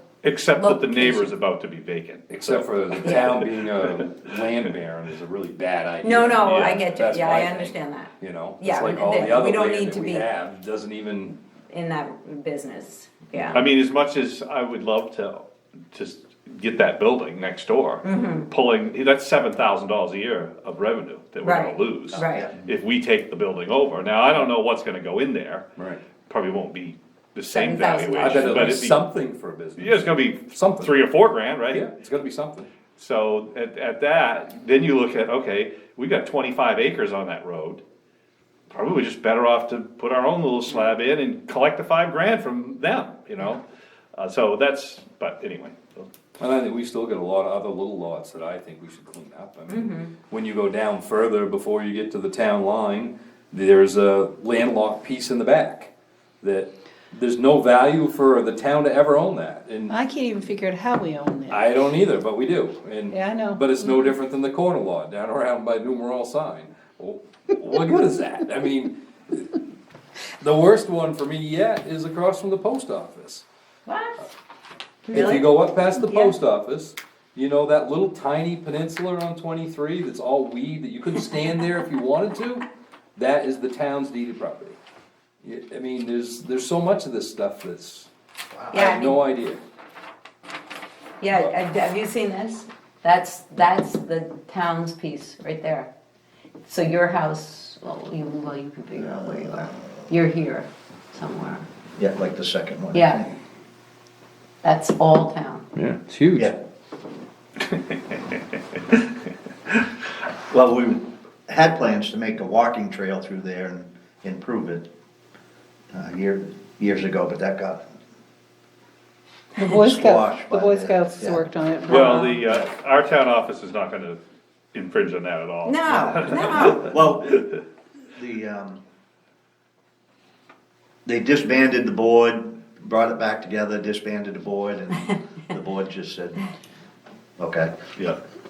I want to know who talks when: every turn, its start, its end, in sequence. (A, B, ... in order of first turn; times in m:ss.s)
0:00.2-0:02.6 A
0:00.6-0:01.3 B
0:02.3-0:11.4 C
0:03.0-0:03.4 B
0:06.0-0:10.3 B
0:06.4-0:06.8 A
0:11.7-0:13.6 B
0:13.3-0:13.6 C
0:13.5-0:25.7 A
0:18.0-0:18.5 B
0:21.4-0:22.5 B
0:22.1-0:22.5 D
0:26.3-0:29.0 A
0:27.5-0:28.7 B
0:28.2-0:31.0 C
0:29.8-0:31.8 A
0:31.7-0:32.7 C
0:33.0-0:37.8 A
0:38.7-0:43.6 A
0:44.2-0:46.1 A
0:46.4-0:55.9 C
0:49.7-0:50.1 B
0:56.4-0:59.9 C
0:59.9-1:01.8 E
1:01.5-1:09.6 C
1:03.1-1:03.8 E
1:10.4-1:13.4 C
1:13.9-1:14.3 B
1:15.1-1:16.4 B
1:15.1-1:24.8 C
1:25.4-1:28.1 C
1:28.5-1:29.0 D
1:28.7-1:29.2 B
1:28.8-1:29.6 C
1:31.2-1:35.9 B
1:36.6-1:41.7 B
1:42.0-1:43.4 D
1:42.9-1:43.3 B
1:44.6-1:45.6 B
1:45.8-1:46.5 C
1:47.7-1:48.4 A
1:50.5-1:54.9 D
1:55.9-1:57.8 D
1:59.6-2:02.4 E
1:59.7-2:01.4 D
2:01.9-2:04.2 A
2:01.9-2:02.4 B
2:04.7-2:06.8 A
2:05.6-2:07.0 B
2:06.0-2:07.5 D
2:08.1-2:08.8 D
2:11.1-2:16.5 D
2:17.4-2:18.0 D